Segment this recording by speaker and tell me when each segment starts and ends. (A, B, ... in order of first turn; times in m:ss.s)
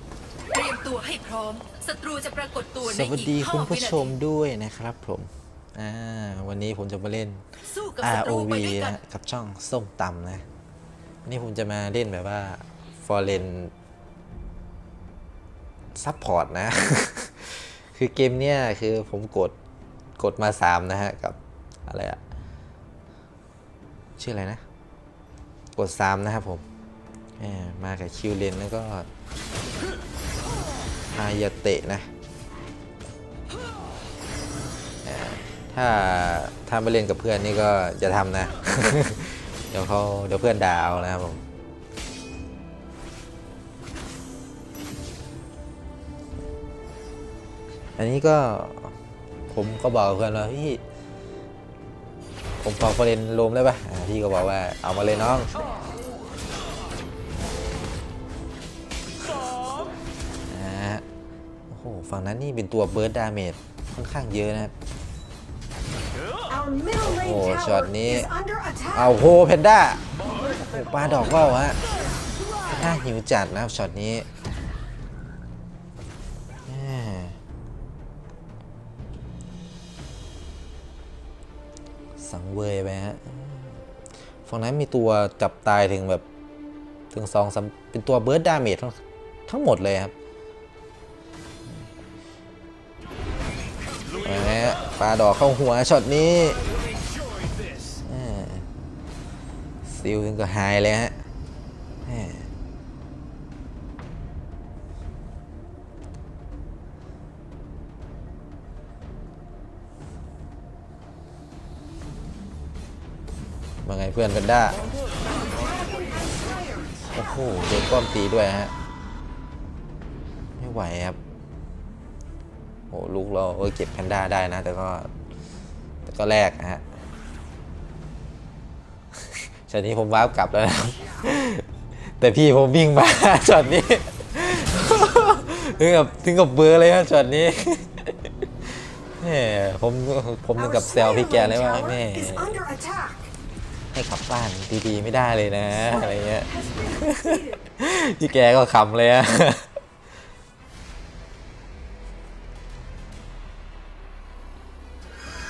0:00.5-0:04.1 A
0:02.8-0:07.4 B
0:07.6-0:09.0 A
0:08.0-0:10.4 B
0:11.3-0:13.7 B
0:16.0-0:19.6 B
0:20.2-0:22.2 B
0:24.2-0:24.6 B
0:25.8-0:26.6 B
0:27.4-0:29.1 B
0:31.1-0:32.1 B
0:35.0-0:41.4 B
0:48.0-0:49.0 B
0:49.5-0:50.8 B
0:52.6-0:55.5 B
1:00.5-1:01.0 B
1:01.7-1:04.7 B
1:06.5-1:07.1 C
1:07.0-1:08.4 B
1:08.5-1:08.9 C
1:08.9-1:11.8 B
1:12.7-1:14.3 B
1:16.7-1:17.4 B
1:22.2-1:23.8 B
1:24.5-1:26.2 B
1:27.1-1:30.1 B
1:34.2-1:36.6 B
1:38.0-1:38.7 B
1:39.8-1:41.2 B
1:42.1-1:42.5 B
1:53.8-1:54.8 B
1:55.9-1:56.5 C
1:57.2-1:58.7 B
2:00.6-2:01.2 B
2:02.9-2:05.1 B
2:06.0-2:06.8 B
2:09.6-2:11.7 B
2:12.2-2:18.3 B
2:19.2-2:22.6 B
2:21.6-2:21.8 C
2:22.5-2:23.3 C
2:23.9-2:29.7 B
2:26.6-2:27.3 C